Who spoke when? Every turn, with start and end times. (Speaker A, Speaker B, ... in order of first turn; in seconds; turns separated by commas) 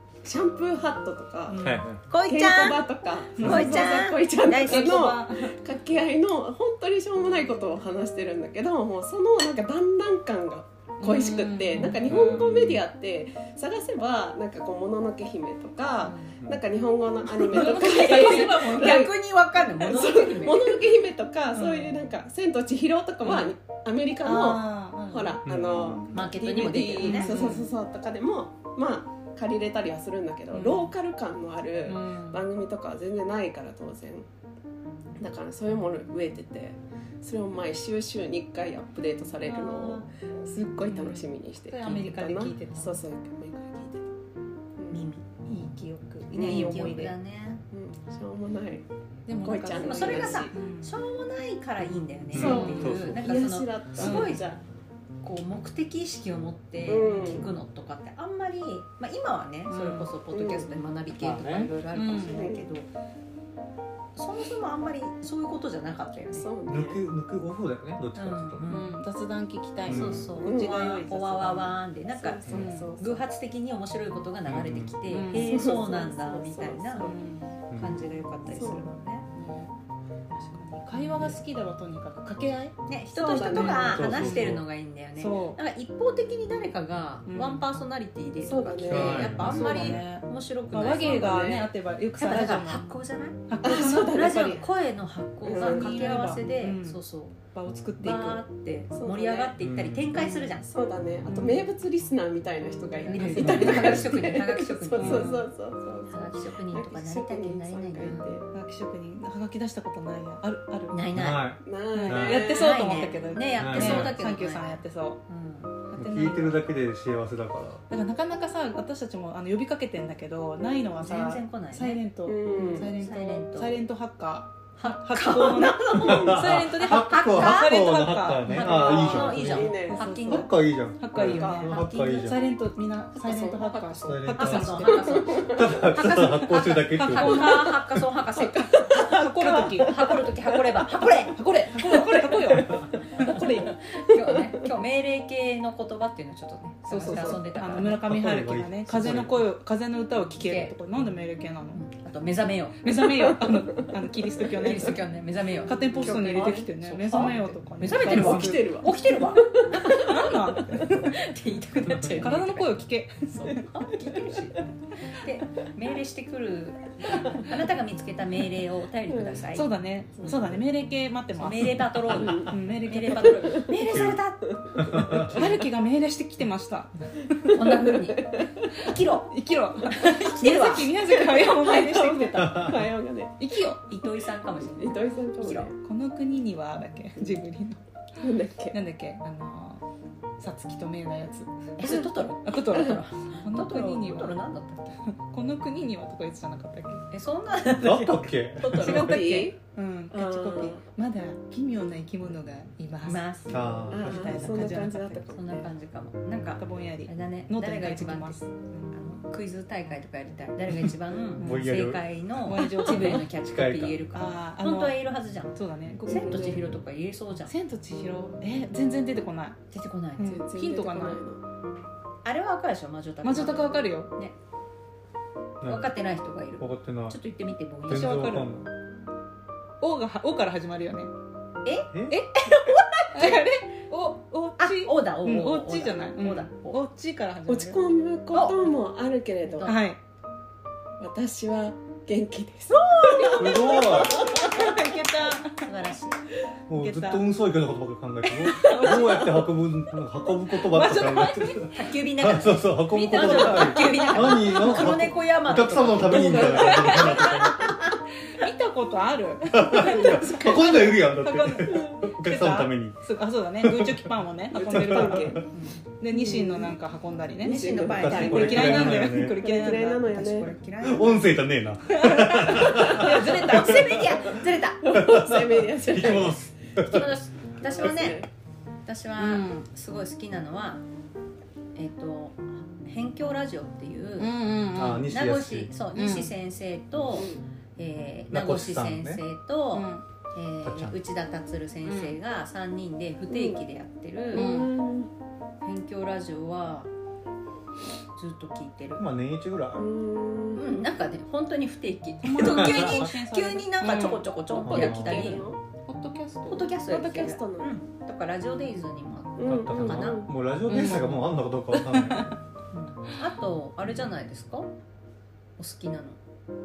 Speaker A: 0.2-1.6, Speaker B: 1.5-1.9, Speaker C: 1.6-2.0, Speaker D: 2.1-5.0, Speaker A: 2.2-19.1, Speaker B: 3.4-5.6, Speaker B: 11.0-12.6, Speaker C: 12.1-12.8, Speaker C: 16.4-16.6, Speaker B: 17.4-19.0, Speaker D: 17.5-20.8, Speaker A: 19.8-34.3, Speaker B: 21.5-22.0, Speaker B: 23.2-23.5, Speaker B: 24.2-25.4, Speaker C: 25.4-26.3, Speaker D: 26.1-27.5, Speaker B: 26.6-27.7, Speaker B: 30.5-30.9, Speaker B: 31.9-32.4, Speaker A: 35.2-44.1, Speaker B: 39.4-40.1, Speaker B: 40.9-43.0, Speaker A: 44.8-45.1, Speaker D: 44.9-45.2, Speaker B: 45.5-47.1, Speaker A: 46.3-47.0, Speaker D: 46.3-47.6, Speaker A: 47.7-48.9, Speaker B: 49.3-50.9, Speaker A: 49.4-50.6, Speaker D: 49.8-54.5, Speaker C: 52.3-53.2, Speaker A: 52.4-54.6, Speaker B: 52.4-52.9, Speaker B: 54.0-54.4, Speaker D: 55.2-62.9, Speaker A: 56.9-57.5, Speaker B: 57.0-57.5, Speaker B: 59.7-60.1, Speaker A: 60.3-60.7, Speaker C: 61.2-61.7, Speaker B: 61.9-62.5, Speaker A: 62.3-62.6, Speaker D: 64.2-66.5, Speaker A: 66.3-67.0, Speaker C: 66.7-68.7, Speaker D: 68.2-69.0, Speaker B: 68.7-71.8, Speaker C: 69.9-70.3, Speaker D: 69.9-77.2, Speaker A: 70.4-70.9, Speaker A: 72.2-73.2, Speaker B: 72.5-73.1, Speaker C: 74.5-75.0, Speaker B: 75.1-75.8, Speaker A: 75.3-77.2, Speaker B: 77.0-77.6, Speaker C: 77.7-78.0, Speaker D: 77.8-79.3, Speaker A: 78.5-78.8, Speaker B: 78.6-79.7, Speaker B: 80.3-82.8, Speaker D: 81.0-81.4, Speaker D: 82.9-91.5, Speaker A: 83.1-84.1, Speaker B: 83.3-84.6, Speaker C: 83.9-84.7, Speaker B: 85.2-85.6, Speaker B: 87.3-87.7, Speaker A: 88.4-90.0, Speaker C: 88.9-90.0, Speaker B: 89.0-92.8, Speaker A: 90.9-91.7, Speaker D: 92.2-97.4, Speaker B: 93.5-94.7, Speaker A: 93.6-94.6, Speaker B: 95.4-97.0, Speaker A: 95.4-96.1, Speaker B: 97.5-98.4, Speaker D: 98.0-100.7, Speaker A: 98.9-99.5, Speaker C: 99.6-100.1, Speaker B: 100.2-100.6, Speaker A: 100.7-108.5, Speaker B: 101.2-101.6, Speaker D: 103.0-105.5, Speaker B: 103.1-104.0, Speaker C: 103.4-104.1, Speaker B: 105.0-105.4, Speaker D: 106.1-108.3, Speaker B: 108.5-111.1, Speaker D: 110.9-111.5, Speaker C: 111.1-112.4, Speaker A: 111.6-112.8, Speaker B: 111.9-115.2, Speaker D: 112.2-115.8, Speaker C: 113.6-114.2, Speaker B: 115.9-116.6, Speaker C: 116.0-117.8, Speaker B: 117.9-135.5, Speaker D: 121.0-122.0, Speaker A: 122.3-122.9, Speaker D: 122.5-123.8, Speaker D: 124.8-127.8, Speaker C: 126.0-132.4, Speaker D: 128.5-130.5, Speaker A: 128.7-130.0, Speaker A: 131.2-131.8, Speaker A: 133.2-133.8, Speaker C: 134.0-134.9, Speaker D: 134.3-148.0, Speaker A: 134.9-135.7, Speaker C: 135.5-137.6, Speaker B: 137.0-137.9, Speaker B: 138.6-140.2, Speaker B: 140.9-143.7, Speaker B: 146.9-151.8, Speaker C: 147.8-149.4, Speaker D: 150.4-150.8, Speaker D: 151.7-152.8, Speaker B: 152.8-155.1, Speaker A: 153.2-153.8, Speaker D: 154.5-162.8, Speaker A: 154.6-154.9, Speaker B: 155.7-158.9, Speaker A: 155.9-156.7, Speaker A: 157.9-160.4, Speaker B: 159.8-161.2, Speaker B: 162.0-163.7, Speaker D: 163.3-169.7, Speaker A: 169.1-169.4, Speaker B: 169.5-173.7, Speaker A: 170.2-170.5, Speaker D: 171.4-174.4, Speaker A: 172.2-172.5, Speaker A: 173.4-173.8, Speaker C: 173.9-174.2, Speaker A: 174.5-175.5, Speaker C: 174.8-175.4, Speaker B: 174.9-176.9, Speaker A: 177.4-178.7, Speaker D: 177.5-179.3, Speaker B: 179.3-183.9, Speaker D: 180.0-180.9, Speaker A: 181.0-183.3, Speaker C: 182.4-182.8, Speaker D: 183.9-185.7, Speaker A: 184.7-185.8, Speaker B: 185.8-187.8, Speaker A: 188.2-188.8, Speaker B: 188.7-189.8, Speaker B: 190.4-191.8, Speaker D: 191.8-195.0, Speaker B: 192.4-194.4, Speaker B: 195.1-197.1, Speaker D: 197.1-199.2, Speaker C: 197.8-199.2, Speaker B: 198.7-205.5, Speaker A: 198.8-199.6, Speaker A: 200.1-200.8, Speaker D: 203.0-203.8, Speaker C: 203.5-204.6, Speaker A: 203.9-205.6, Speaker D: 205.3-217.5, Speaker B: 206.6-209.0, Speaker C: 210.8-214.0, Speaker B: 211.4-211.8, Speaker B: 212.4-213.3, Speaker B: 214.1-215.0, Speaker B: 215.5-216.6, Speaker A: 216.1-216.6, Speaker B: 217.5-219.6, Speaker D: 219.7-220.4, Speaker B: 220.2-221.2, Speaker A: 220.2-221.4, Speaker D: 222.2-224.3, Speaker B: 223.2-224.1, Speaker C: 225.6-225.9, Speaker D: 225.7-228.2, Speaker C: 226.6-227.2, Speaker C: 227.9-228.7, Speaker B: 227.9-228.5, Speaker B: 229.8-231.1, Speaker D: 231.7-233.5, Speaker C: 231.9-232.2, Speaker B: 232.1-237.8, Speaker D: 234.6-236.8, Speaker A: 237.5-239.7, Speaker D: 238.3-238.6, Speaker D: 239.4-239.8, Speaker B: 239.7-240.0, Speaker A: 241.0-244.9, Speaker D: 242.9-243.3, Speaker B: 242.9-245.7, Speaker C: 243.4-244.3, Speaker D: 245.6-246.2, Speaker C: 246.7-257.8, Speaker B: 246.7-247.3, Speaker B: 248.4-249.5, Speaker B: 250.5-251.7, Speaker D: 251.7-257.7, Speaker B: 252.9-254.9, Speaker B: 256.1-257.8, Speaker B: 258.3-265.5, Speaker C: 259.5-263.0, Speaker A: 259.8-260.7, Speaker C: 263.6-264.1, Speaker A: 264.6-265.4, Speaker C: 264.6-265.4, Speaker D: 265.5-265.8, Speaker B: 266.0-270.3, Speaker A: 266.1-266.7, Speaker D: 267.4-269.0, Speaker A: 267.4-270.5, Speaker C: 268.0-269.4, Speaker D: 270.1-271.3, Speaker C: 270.8-274.3, Speaker B: 271.9-274.1, Speaker D: 272.6-274.8, Speaker A: 274.8-276.5, Speaker C: 274.9-277.1, Speaker D: 276.8-278.3, Speaker A: 277.6-278.3, Speaker D: 278.9-280.8, Speaker B: 279.2-279.7, Speaker D: 281.8-284.3, Speaker B: 284.2-285.1, Speaker C: 284.8-285.7, Speaker D: 285.1-294.5, Speaker B: 285.9-286.3, Speaker A: 287.1-287.4, Speaker C: 288.3-289.2, Speaker B: 289.7-290.0, Speaker C: 290.6-291.0, Speaker B: 291.9-292.2, Speaker A: 293.3-293.6, Speaker A: 294.3-295.1, Speaker B: 294.3-294.7, Speaker D: 295.6-296.9, Speaker D: 298.1-299.0, Speaker C: 299.0-299.9, Speaker A: 299.8-300.7, Speaker D: 300.6-305.5, Speaker B: 302.2-304.3, Speaker C: 302.4-303.1, Speaker A: 304.5-305.6, Speaker C: 304.6-305.4, Speaker B: 305.9-306.7, Speaker D: 306.5-310.3, Speaker A: 306.9-307.8, Speaker A: 309.4-310.3, Speaker C: 309.5-312.3, Speaker B: 310.7-311.2, Speaker B: 311.8-312.3, Speaker D: 312.7-314.7, Speaker D: 315.6-316.2